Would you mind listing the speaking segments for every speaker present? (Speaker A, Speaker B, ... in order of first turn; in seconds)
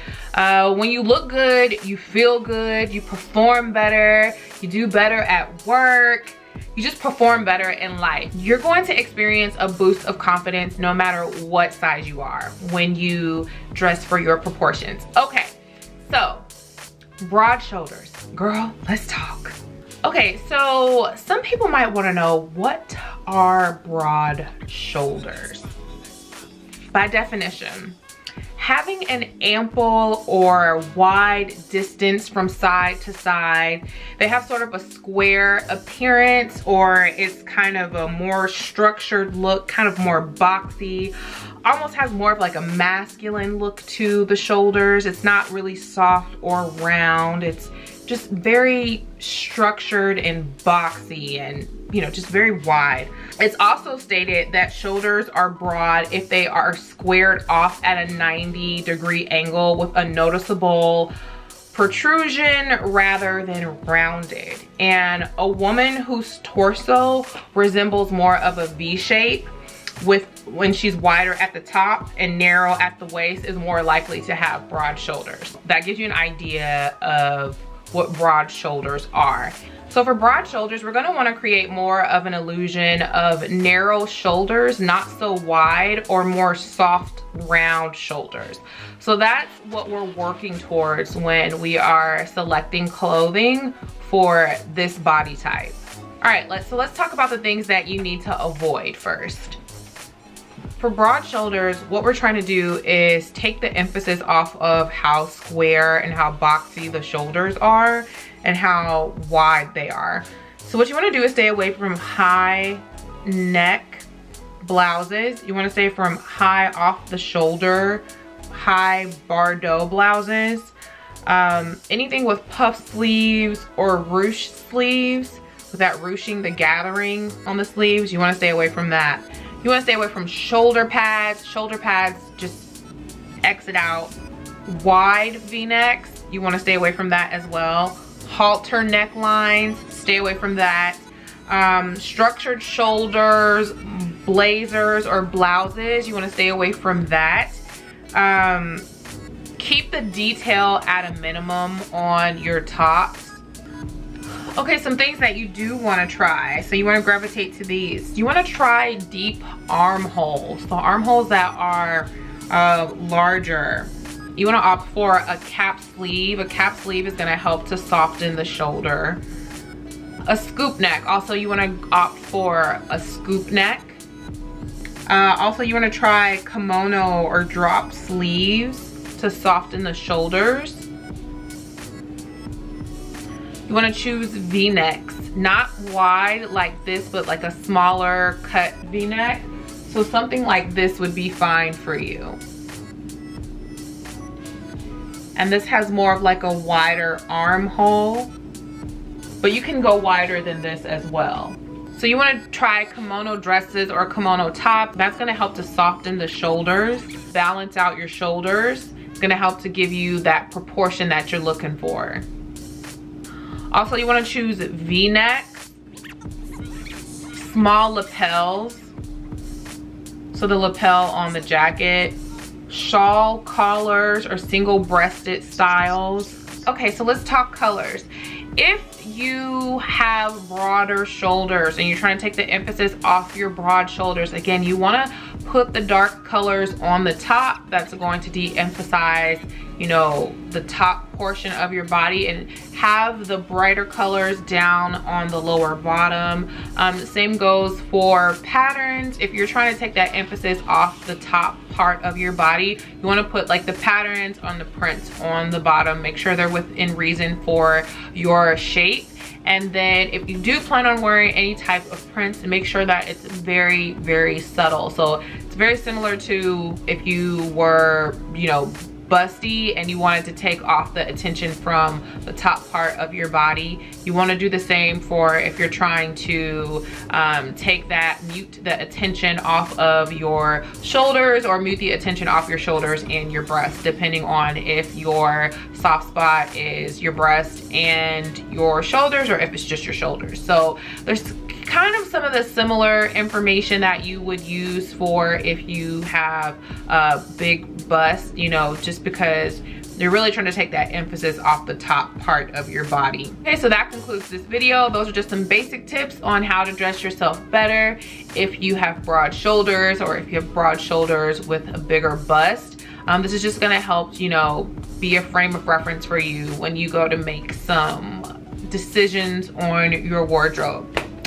Speaker A: 0.3-16.5, 17.2-25.7, 26.9-28.0, 28.5-61.1, 61.7-69.5, 70.0-99.6, 100.8-114.1, 114.6-120.7, 121.2-132.7, 133.4-134.1, 134.7-148.9, 149.6-153.4, 154.6-169.2, 170.3-174.0, 175.1-180.9, 183.7-192.4, 195.3-198.3, 199.4-212.2, 213.7-215.7, 217.2-218.9, 220.3-222.2, 222.7-321.0